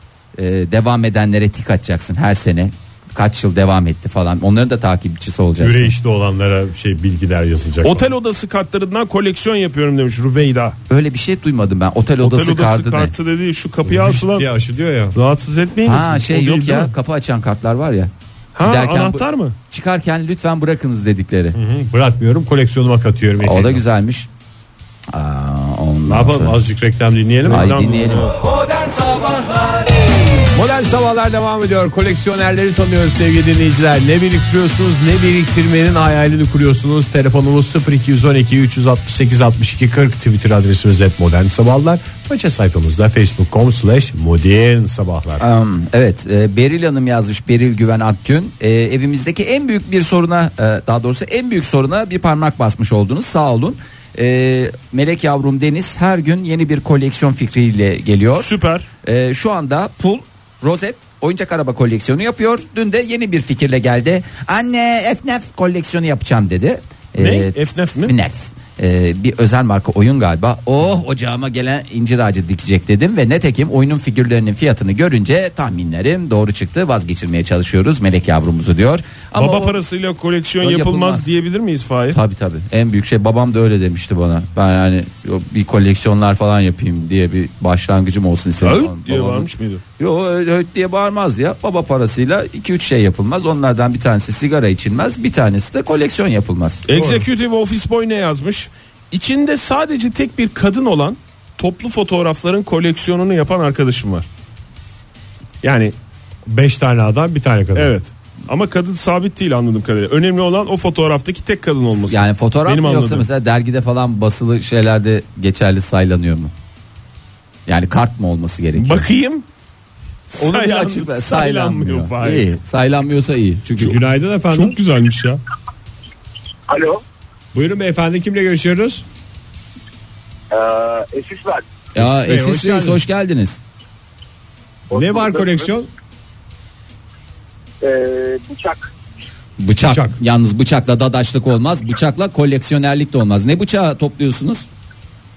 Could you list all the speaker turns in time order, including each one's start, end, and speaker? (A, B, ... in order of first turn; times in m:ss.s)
0:00.4-0:05.9 A
0:05.6-0:08.1 B
0:07.8-0:10.8 C
0:10.9-0:13.1 A
0:12.2-0:14.5 C
0:13.8-0:15.2 B
0:15.2-0:16.9 C
0:15.8-0:18.1 A
0:18.6-0:19.6 C
0:18.6-0:21.6 A
0:21.5-0:23.8 B
0:23.4-0:24.3 A
0:25.1-0:26.6 A
0:26.0-0:27.8 B
0:27.4-0:28.3 C
0:27.5-0:28.3 A
0:30.5-0:45.4 B
0:45.4-0:58.5 A
0:58.3-0:58.9 C
0:59.0-1:19.8 A
1:07.2-1:08.2 C
1:19.4-1:22.2 C
1:20.6-1:21.2 A
1:22.1-1:29.5 A
1:28.6-1:29.8 C
1:30.0-1:36.8 A
1:36.9-1:44.3 C
1:36.9-1:37.3 B
1:45.6-1:45.9 C
1:46.5-1:47.9 B
1:47.8-1:53.3 C
1:52.0-1:56.5 A
1:57.7-1:59.1 A
1:58.7-1:59.4 C
2:00.3-2:02.5 C
2:00.4-2:04.0 A
2:03.8-2:04.8 B
2:04.5-2:05.4 C
2:06.7-2:07.0 D
2:07.5-2:09.1 B
2:10.5-2:11.6 D
2:12.0-2:13.0 B
2:12.0-2:13.6 A
2:14.9-2:15.7 D
2:14.9-2:15.9 B
2:17.8-2:18.9 D
2:19.6-2:24.7 A
2:19.8-2:20.2 B